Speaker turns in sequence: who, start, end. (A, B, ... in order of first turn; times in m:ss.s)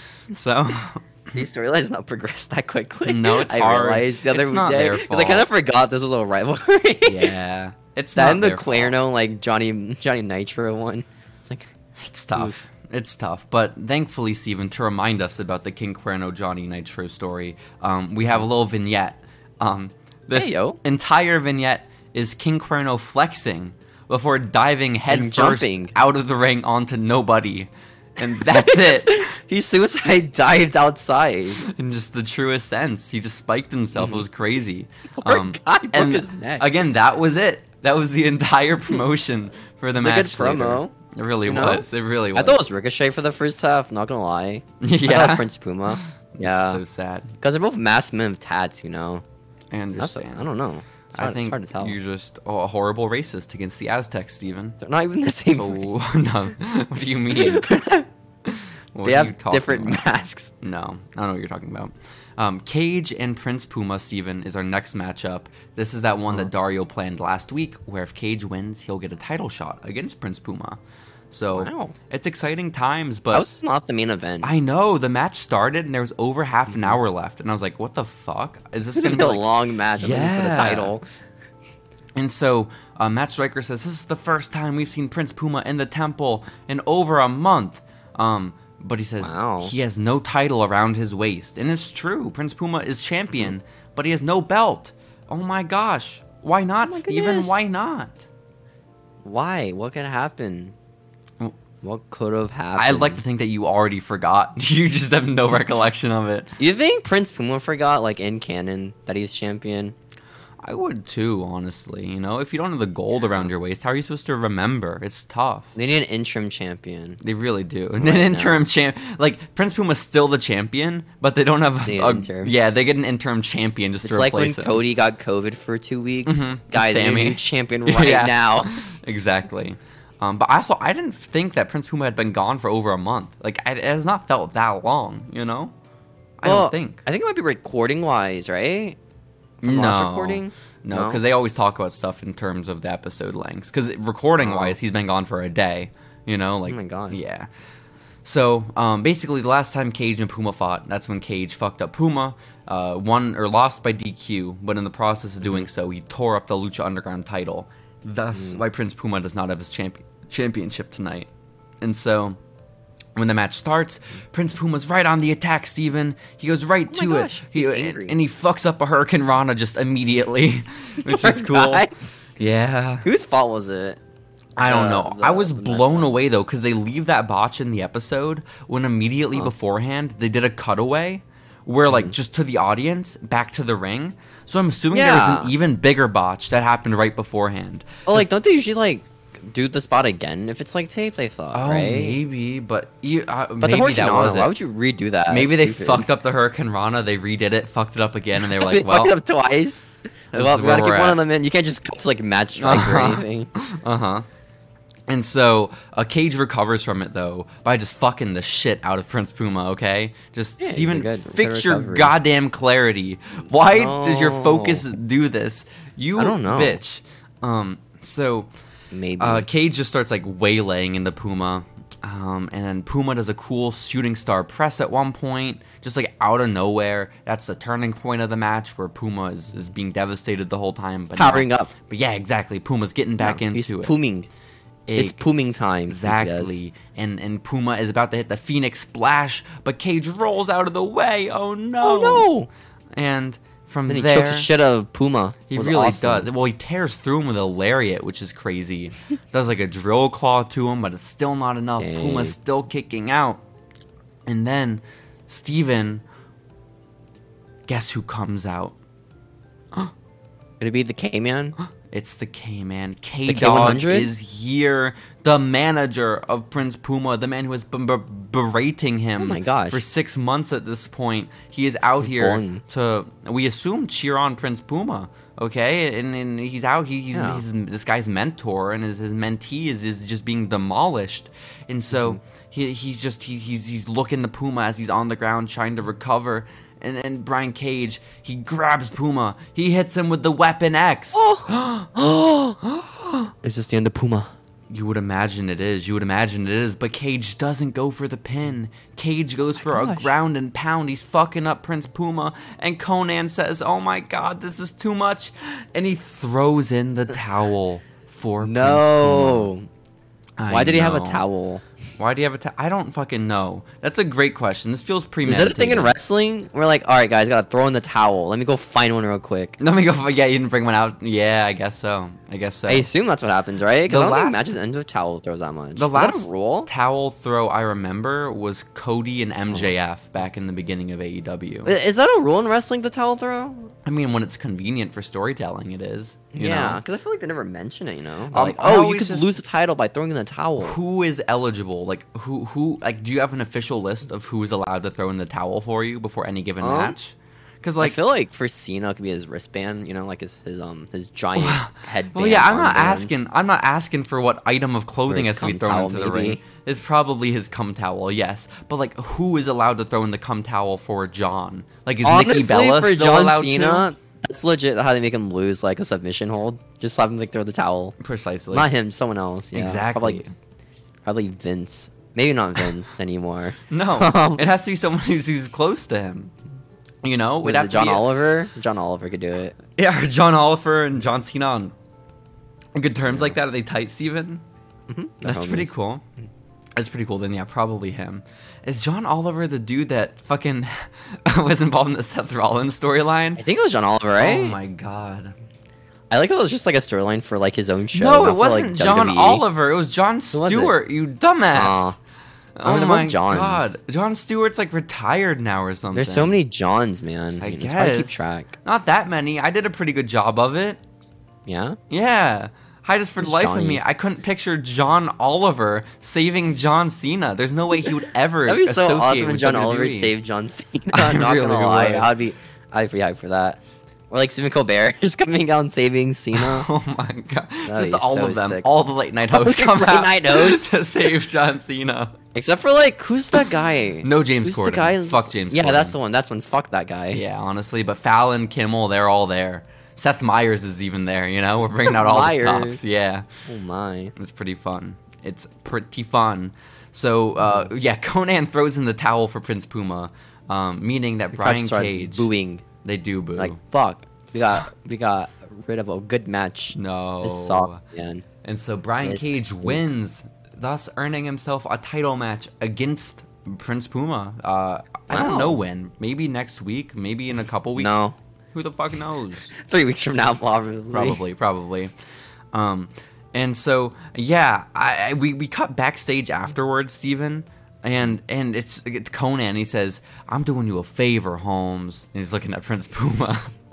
0:00.3-0:01.3 A
0:01.3-0:07.3 B
0:03.0-0:05.5 A
0:07.0-0:08.9 A
0:08.1-0:11.7 B
0:12.0-0:29.2 A
0:20.3-0:20.8 B
0:25.1-0:25.9 B
0:28.2-0:31.6 B
0:31.6-0:42.6 A
0:34.0-0:34.2 B
0:35.2-0:36.7 B
0:39.9-0:40.9 B
0:41.4-0:46.8 B
0:44.8-0:47.4 A
0:47.4-0:49.2 B
0:49.7-0:50.5 A
0:50.0-0:52.0 B
0:51.1-0:54.8 A
0:54.8-0:55.9 B
0:55.5-0:57.8 A
0:57.3-0:58.1 B
0:58.4-1:00.0 A
0:59.0-1:00.5 B
1:00.6-1:10.8 A
1:11.3-1:13.5 A
1:11.5-1:11.9 B
1:13.3-1:14.5 B
1:14.4-1:19.4 A
1:16.7-1:17.0 B
1:18.9-1:21.0 B
1:20.0-1:20.9 A
1:22.1-1:38.2 A
1:29.2-1:29.7 B
1:36.8-1:37.6 B
1:39.2-1:40.7 B
1:41.8-1:43.2 B
1:42.8-1:46.5 A
1:46.6-1:49.9 B
1:50.6-1:55.7 A
1:55.7-1:57.2 B
1:57.2-2:04.8 A
1:58.0-1:58.6 B
2:01.8-2:02.5 B
2:04.0-2:08.8 B
2:06.2-2:15.7 A
2:16.4-2:17.0 A
2:16.4-2:19.0 B
2:19.6-2:27.5 A
2:19.6-2:21.2 B
2:24.4-2:24.8 B
2:26.7-2:27.2 B
2:28.2-2:41.3 A
2:38.3-2:38.6 B
2:41.8-2:42.4 A
2:43.1-2:51.9 A
2:46.9-2:48.2 B
2:51.0-2:51.9 B
2:52.4-2:53.0 A
2:53.0-2:54.0 B
2:54.6-2:56.2 B
2:54.6-3:08.2 A
3:01.9-3:02.1 B
3:04.9-3:05.5 B
3:08.0-3:12.2 B
3:11.5-3:14.5 A
3:13.6-3:16.1 B
3:15.3-3:19.2 A
3:18.4-3:23.5 B
3:20.3-3:21.2 A
3:22.6-3:24.2 A
3:25.1-3:38.5 A
3:30.6-3:32.1 B
3:33.7-3:34.8 B
3:36.2-3:36.8 B
3:38.9-3:39.4 B
3:39.2-3:53.9 A
3:51.1-3:51.7 B
3:53.2-3:54.3 B
3:54.9-3:55.2 A
3:55.0-3:56.6 B
3:55.9-4:02.3 A
4:01.8-4:02.5 B
4:02.9-4:04.5 A
4:03.9-4:06.3 B
4:05.5-4:13.4 A
4:11.8-4:12.4 B
4:14.2-4:16.0 A
4:17.7-4:18.8 A
4:20.6-4:21.6 B
4:21.6-4:53.3 A
4:23.2-4:24.1 B
4:29.2-4:29.8 B
4:32.0-4:32.6 B
4:37.1-4:37.4 B
4:41.9-4:42.2 B
4:51.1-4:52.6 B
4:53.4-4:54.3 B
4:54.7-5:09.5 A
4:59.6-5:00.1 B
5:08.4-5:09.7 B
5:10.4-5:11.2 A
5:10.5-5:11.6 B
5:12.0-5:16.0 A
5:15.2-5:19.6 B
5:19.6-5:22.9 A
5:22.7-5:26.7 B
5:23.8-5:24.5 A
5:25.8-5:31.7 A
5:31.6-5:33.7 B
5:33.8-5:36.8 A
5:36.3-5:40.8 B
5:38.3-5:39.3 A
5:40.6-5:48.0 A
5:46.6-5:47.0 B
5:47.8-5:53.1 B
5:51.4-6:03.9 A
5:55.1-5:56.4 B
6:02.0-6:08.0 B
6:08.0-6:08.7 A
6:08.5-6:10.2 B
6:09.5-6:10.3 A
6:11.0-6:14.4 B
6:13.7-6:16.3 A
6:17.0-6:18.1 A
6:17.4-6:19.6 B
6:19.7-6:21.7 A
6:22.7-6:24.4 A
6:24.9-6:25.7 B
6:25.2-6:26.0 A
6:26.8-6:33.4 A
6:33.4-6:34.6 B
6:34.2-6:35.3 A
6:36.1-6:39.4 B
6:37.9-6:42.0 A
6:40.3-6:40.7 B
6:41.5-6:42.0 B
6:42.6-6:46.4 A
6:42.6-6:43.7 B
6:45.9-6:48.5 B
6:47.4-6:50.8 A
6:51.4-6:51.8 B
6:51.9-7:00.1 A
6:53.2-6:53.8 B
6:58.4-7:03.6 B
7:00.9-7:02.1 A
7:04.1-7:06.7 B
7:06.3-7:12.1 A
7:07.7-7:08.7 B
7:09.3-7:10.7 B
7:12.3-7:17.2 B
7:14.0-7:16.0 A
7:17.1-7:23.2 A
7:21.6-7:22.8 B
7:23.5-7:24.1 B
7:24.2-7:32.3 A
7:27.4-7:27.7 B
7:31.3-7:32.6 B
7:32.8-7:33.6 A
7:33.4-7:38.2 B
7:36.7-7:37.8 A
7:38.4-7:48.0 A
7:39.0-7:39.9 B
7:45.1-7:45.6 B
7:47.8-7:48.2 B
7:48.5-7:49.5 A
7:49.5-7:51.2 B
7:50.9-7:51.9 A
7:52.5-8:03.5 A